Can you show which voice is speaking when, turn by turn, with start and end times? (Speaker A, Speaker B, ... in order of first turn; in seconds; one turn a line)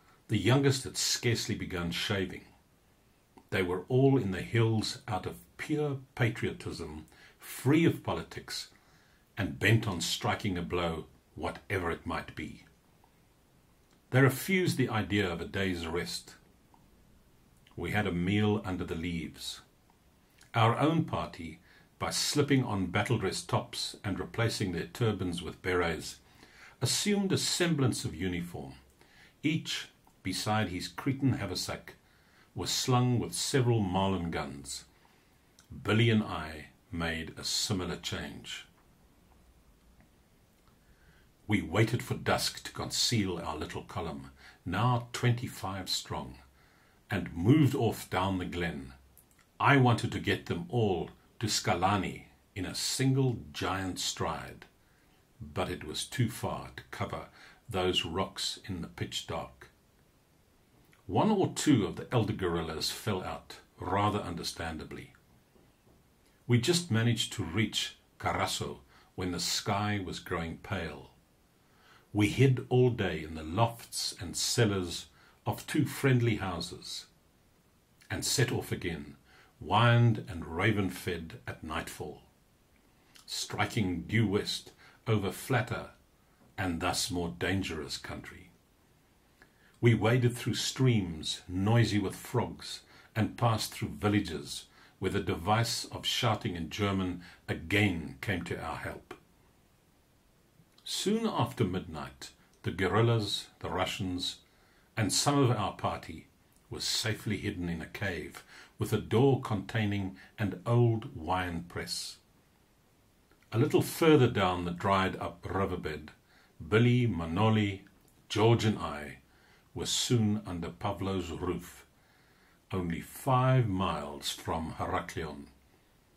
Speaker A: 0.3-2.5
Speaker A: 3.5-8.7
Speaker A: 9.4-12.7
Speaker A: 14.1-16.4
Speaker A: 17.8-19.6
Speaker A: 20.5-26.2
Speaker A: 26.8-28.8
Speaker A: 29.4-32.0
Speaker A: 32.5-34.9
Speaker A: 35.7-38.7
Speaker A: 41.5-46.4
Speaker A: 47.1-48.9
Speaker A: 49.6-54.7
Speaker A: 55.4-59.7
Speaker A: 61.1-65.1
Speaker A: 66.5-71.2
Speaker A: 72.1-77.1
Speaker A: 78.1-82.3
Speaker A: 83.3-85.9
Speaker A: 86.6-88.5
Speaker A: 89.8-99.2
Speaker A: 100.8-104.4
Speaker A: 105.0-112.2
Speaker A: 113.5-119.2
Speaker A: 119.7-121.9
Speaker A: 122.7-125.5